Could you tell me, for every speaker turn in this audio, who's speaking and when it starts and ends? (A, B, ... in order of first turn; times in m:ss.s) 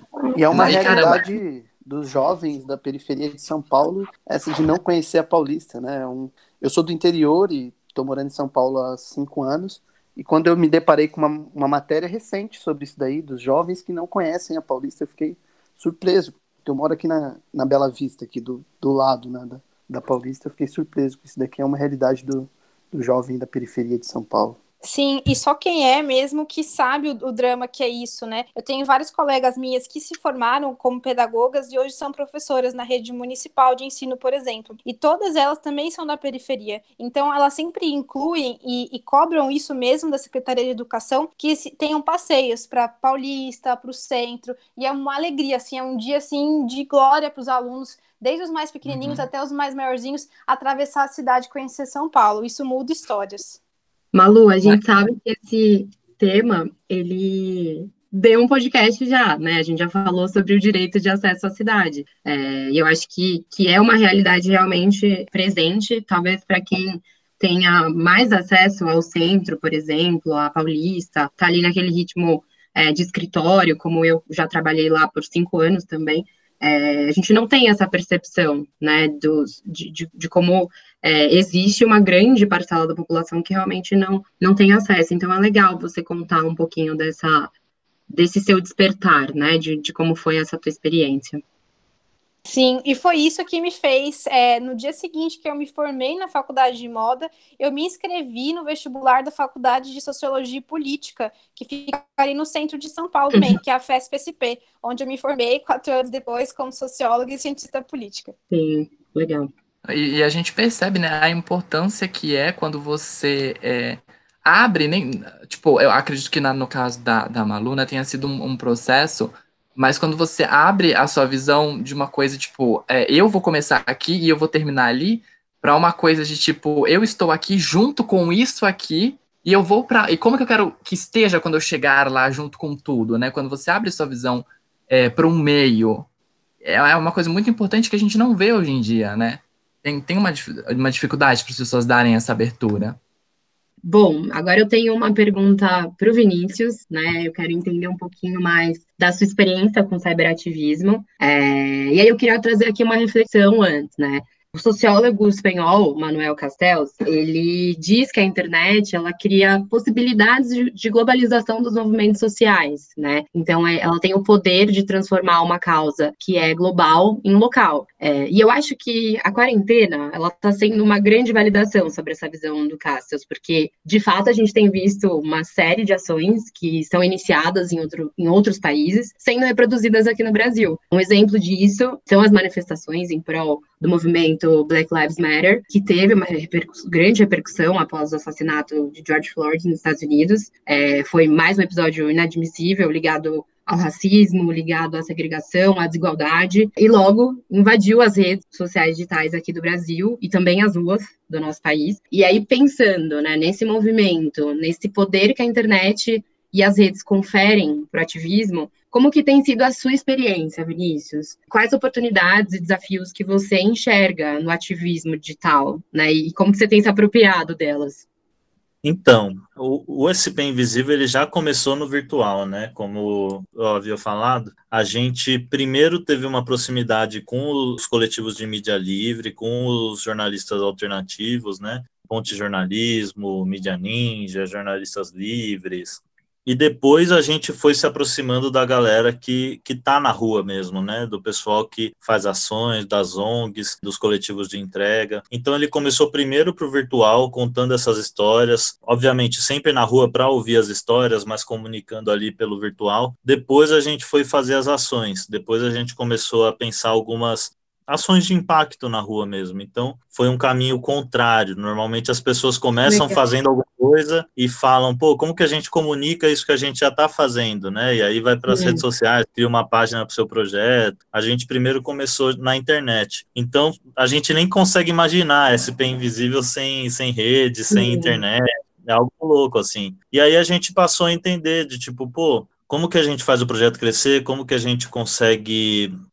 0:00.4-0:24.6 A
0:00.5-0:01.2 B
0:24.8-0:53.6 C
0:48.9-0:49.3 B
0:54.1-1:27.5 D
1:28.1-1:31.4 D
1:32.5-1:48.3 C
1:48.5-1:49.5 D
1:49.9-2:16.1 B
2:16.6-2:23.0 B
2:23.8-3:38.0 D
3:38.8-4:45.9 E
4:22.8-4:23.2 D
4:28.5-4:28.8 D
4:37.7-4:38.2 D